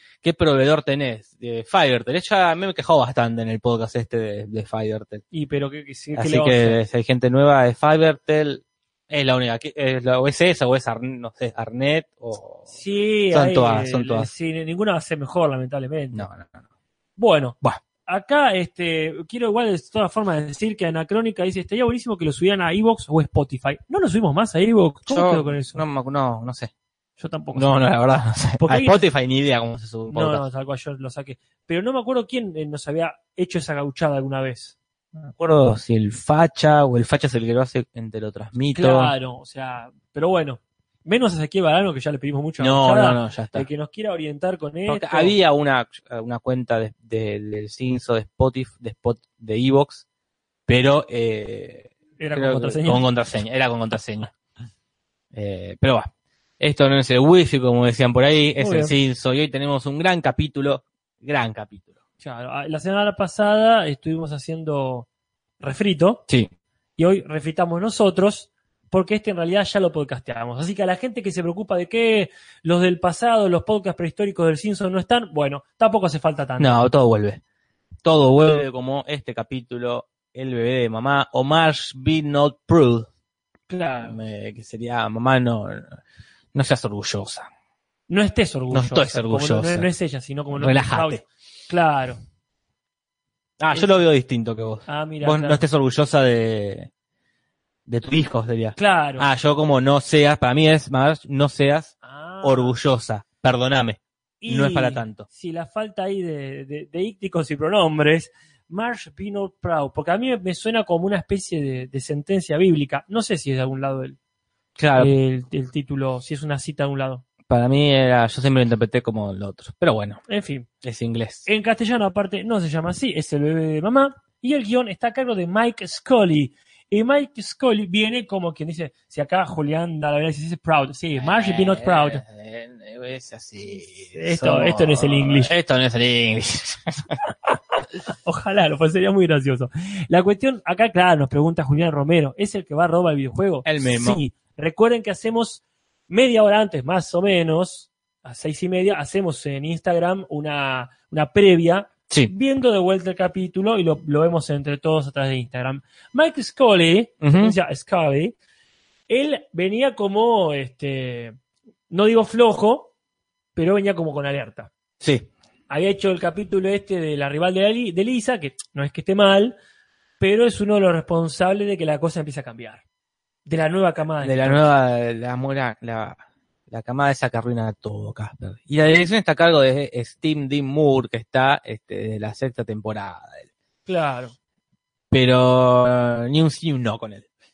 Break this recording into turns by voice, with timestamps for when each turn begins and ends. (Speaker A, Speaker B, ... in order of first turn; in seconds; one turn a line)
Speaker A: 0.2-5.2
Speaker B: 5.3-6.8
Speaker A: 6.2-12.7
Speaker B: 12.7-16.3
Speaker A: 13.3-14.3
Speaker A: 16.1-16.6
Speaker B: 17.2-25.8
Speaker A: 25.1-26.7
Speaker B: 27.2-27.7
Speaker A: 27.5-30.4
Speaker B: 28.6-29.0
Speaker B: 30.1-34.8
Speaker A: 35.3-39.1
Speaker B: 38.7-45.4
Speaker A: 42.6-43.7
Speaker A: 44.9-50.0
Speaker A: 50.7-54.3
Speaker B: 52.2-53.0
Speaker A: 55.3-61.9
Speaker B: 58.6-59.0
Speaker B: 62.2-65.1
Speaker B: 65.6-66.2
Speaker B: 67.0-76.9
Speaker A: 76.6-77.4
Speaker A: 78.0-83.1
Speaker B: 83.7-84.2
Speaker A: 84.0-86.0
Speaker A: 86.5-87.5
Speaker B: 88.1-92.2
Speaker A: 88.7-89.9
Speaker A: 90.5-91.2
Speaker A: 93.6-96.9
Speaker B: 94.9-95.6
Speaker A: 97.9-105.3
Speaker B: 98.8-99.3
Speaker B: 102.0-102.8
Speaker B: 104.4-114.2
Speaker A: 114.8-115.1
Speaker B: 115.0-117.2
Speaker A: 117.5-120.2
Speaker B: 120.3-120.7
Speaker A: 120.8-121.5
Speaker B: 121.5-132.2
Speaker A: 131.2-137.1
Speaker B: 134.2-135.5
Speaker B: 137.5-158.4
Speaker A: 143.7-144.2
Speaker A: 157.2-157.6
Speaker B: 159.1-161.4
Speaker B: 161.9-162.9
Speaker B: 163.6-164.7
Speaker A: 165.0-165.3
Speaker B: 165.7-169.6
Speaker B: 170.2-172.8
Speaker B: 173.5-174.6
Speaker A: 174.2-176.2
Speaker A: 176.7-183.4
Speaker B: 183.9-184.3
Speaker A: 185.1-187.3